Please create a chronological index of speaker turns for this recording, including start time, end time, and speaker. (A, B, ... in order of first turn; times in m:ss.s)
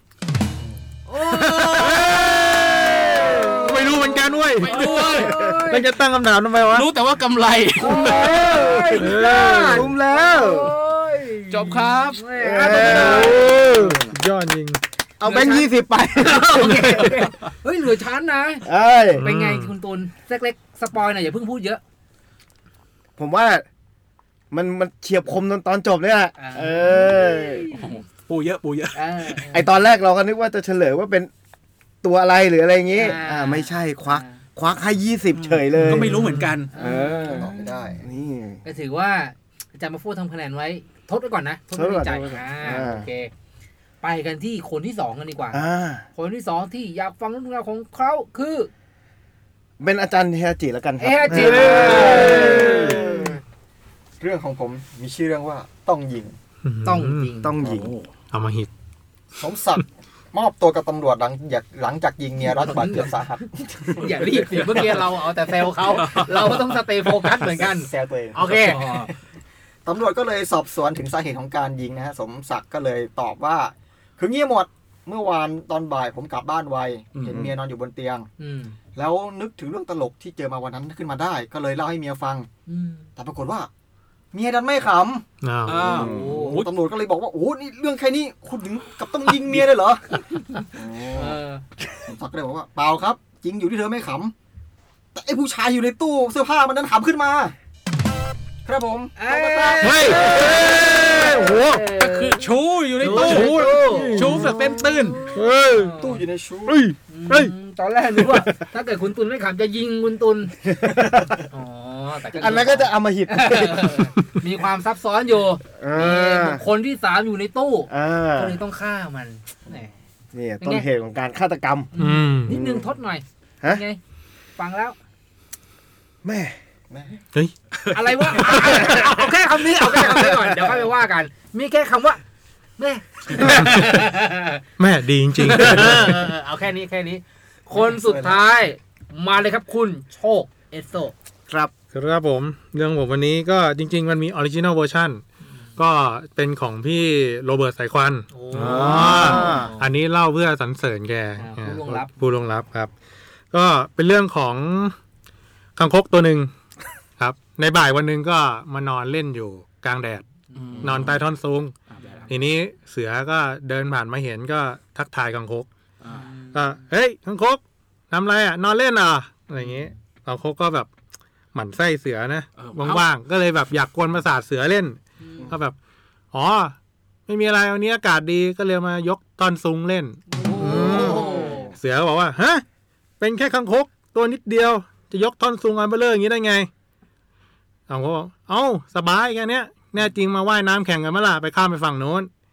0:01.0-0:05.9 A
0:01.8-0:02.6 B
0:03.6-0:04.8 B
0:04.6-0:05.4 C
0:05.7-0:06.9 B
0:06.7-0:08.2 C
0:07.8-0:13.5 A
0:08.1-0:10.8 D
0:09.0-0:09.8 B
0:11.5-0:12.2 C
0:12.4-0:14.0 D
0:12.8-0:13.2 C
0:12.8-0:14.8 B
0:15.2-0:17.0 D
0:15.2-0:18.6 A
0:16.6-0:17.1 B
0:18.6-0:19.3 D
0:19.2-0:19.7 B
0:19.2-0:21.8 A
0:23.2-0:23.6 D
0:24.5-0:27.7 D
0:26.4-0:27.8 A
0:27.7-0:29.4 C
0:28.9-0:29.7 A
0:29.5-0:31.3 D
0:32.0-0:38.6 D
0:32.9-0:34.4 A
0:35.3-0:36.7 C
0:35.9-0:36.5 B
0:36.7-0:37.6 A
0:37.2-0:38.1 E
0:38.6-0:43.3 A
0:41.7-0:43.1 D
0:44.0-0:45.6 A
0:45.5-0:46.0 D
0:46.1-0:48.7 A
0:49.8-0:53.2 D
0:51.0-0:53.3 A
0:51.3-0:53.2 B
0:51.8-0:52.9 E
0:54.2-0:56.4 E
0:56.6-0:57.3 B
0:56.8-0:57.5 A
0:57.4-0:57.9 D
0:57.6-0:58.1 C
0:58.3-0:58.7 B
0:59.4-1:04.9 E
1:02.4-1:03.2 A
1:03.9-1:08.9 A
1:05.9-1:06.7 C
1:07.5-1:09.0 E
1:08.4-1:09.1 C
1:09.8-1:18.3 E
1:17.1-1:17.4 C
1:18.4-1:18.8 A
1:18.9-1:22.5 E
1:22.7-1:23.0 A
1:23.2-1:23.7 E
1:24.3-1:25.2 E
1:25.4-1:25.9 B
1:25.6-1:26.7 C
1:25.8-1:26.4 D
1:25.9-1:26.5 A
1:25.9-1:30.0 E
1:30.7-1:31.4 E
1:31.1-1:31.6 A
1:32.0-1:34.3 E
1:35.1-1:37.5 E
1:38.6-1:40.2 E
1:39.2-1:42.4 A
1:39.8-1:41.8 B
1:42.0-1:45.2 C
1:43.0-1:46.2 A
1:43.1-1:44.7 B
1:45.3-1:46.0 B
1:46.0-1:46.8 E
1:46.7-1:47.5 B
1:47.1-1:50.5 A
1:50.6-1:51.3 D
1:51.5-1:59.9 A
1:52.3-1:54.0 D
1:55.8-1:56.6 D
1:57.9-1:58.6 D
2:00.3-2:01.9 D
2:00.6-2:00.8 A
2:01.9-2:04.0 A
2:02.0-2:02.5 B
2:02.5-2:02.9 D
2:04.6-2:05.0 A
2:06.2-2:06.6 D
2:06.9-2:07.2 E
2:07.8-2:09.0 C
2:07.9-2:12.2 A
2:08.8-2:09.2 D
2:09.8-2:10.8 D
2:12.8-2:14.6 A
2:14.8-2:16.2 B
2:15.4-2:21.1 A
2:17.7-2:18.4 E
2:21.9-2:25.2 B
2:25.8-2:32.9 B
2:28.3-2:29.9 A
2:28.5-2:29.7 D
2:31.4-2:32.1 A
2:33.5-2:34.9 B
2:35.8-2:36.5 B
2:37.2-2:40.2 B
2:40.5-2:41.2 C
2:40.6-2:41.1 A
2:40.8-2:41.7 B
2:41.9-2:42.3 C
2:42.0-2:42.3 A
2:42.3-2:45.7 B
2:46.0-2:46.3 C
2:46.1-2:46.8 A
2:46.5-2:50.9 B
2:49.6-2:49.9 A
2:51.5-2:55.0 B
2:52.6-2:53.1 C
2:55.2-2:55.5 A
2:55.5-2:55.7 B
2:56.3-2:56.8 B
2:57.3-3:02.6 B
3:00.3-3:01.7 A
3:00.6-3:01.6 E
3:03.2-3:06.7 B
3:07.9-3:12.3 B